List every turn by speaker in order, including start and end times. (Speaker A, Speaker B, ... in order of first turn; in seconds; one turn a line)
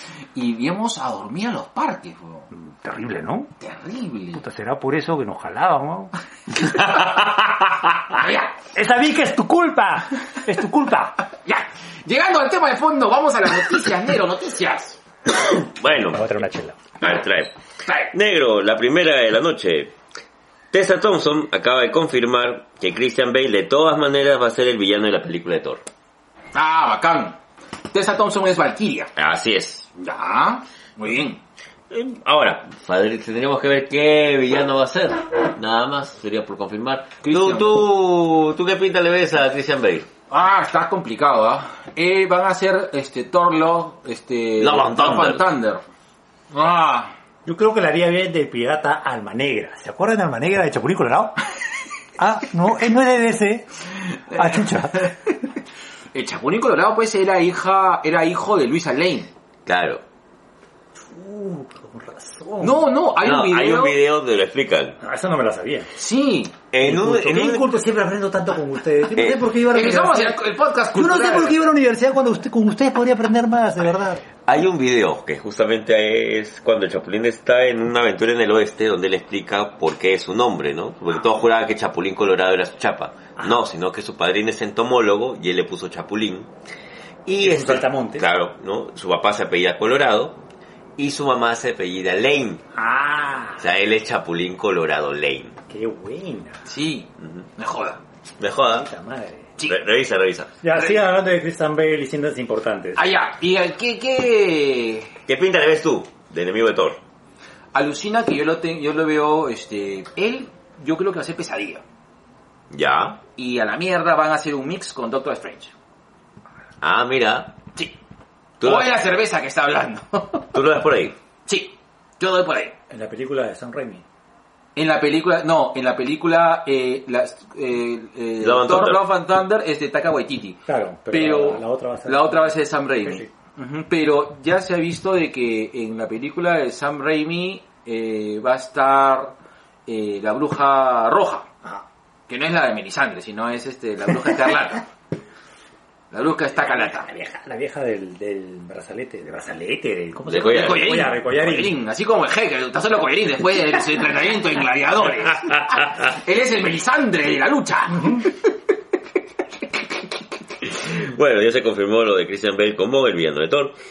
Speaker A: 0.3-2.5
Speaker B: 2.5-3.5
Speaker A: 3.6-4.4
Speaker B: 4.3-6.1
Speaker A: 8.2-8.5
Speaker B: 8.7-11.2
Speaker A: 11.4-15.0
Speaker C: 15.5-16.2
Speaker B: 15.9-16.8
Speaker C: 17.0-17.5
Speaker C: 18.1-19.9
Speaker C: 20.7-25.8
Speaker A: 26.5-27.4
Speaker A: 27.9-29.1
Speaker C: 29.1-29.9
Speaker A: 30.0-31.4
Speaker C: 31.9-40.1
Speaker A: 37.2-37.8
Speaker A: 40.3-45.8
Speaker C: 44.6-45.5
Speaker A: 46.5-47.1
Speaker B: 47.5-51.4
Speaker B: 52.2-53.8
Speaker A: 54.3-55.4
Speaker B: 54.3-55.1
Speaker A: 56.1-59.3
Speaker C: 59.6-60.0
Speaker B: 61.1-62.9
Speaker A: 62.6-64.0
Speaker C: 63.2-65.0
Speaker B: 65.0-65.9
Speaker A: 66.0-66.5
Speaker C: 66.7-67.6
Speaker B: 66.8-70.4
Speaker A: 69.6-71.6
Speaker B: 70.9-74.2
Speaker C: 74.4-86.5
Speaker C: 87.2-90.4
Speaker B: 87.4-88.2
Speaker C: 91.0-92.6
Speaker B: 92.7-93.7
Speaker C: 93.6-95.5
Speaker B: 95.7-96.6
Speaker A: 96.7-98.0
Speaker C: 97.2-97.5
Speaker C: 98.4-98.9
Speaker B: 98.7-99.5
Speaker C: 99.7-100.5
Speaker B: 100.6-103.0
Speaker A: 103.0-105.1
Speaker C: 105.3-107.0
Speaker A: 107.7-111.8
Speaker C: 112.7-113.2
Speaker A: 113.4-115.7
Speaker C: 116.8-117.6
Speaker A: 118.6-120.5
Speaker C: 118.6-118.9
Speaker C: 120.5-121.2
Speaker A: 121.5-122.8
Speaker B: 122.9-124.0
Speaker A: 124.8-139.3
Speaker C: 128.4-129.1
Speaker B: 130.7-133.3
Speaker A: 139.9-141.5
Speaker A: 142.3-144.8
Speaker A: 146.1-147.1
Speaker B: 146.6-151.7
Speaker C: 150.2-151.0
Speaker A: 150.5-158.3
Speaker B: 157.9-158.3
Speaker C: 160.6-163.8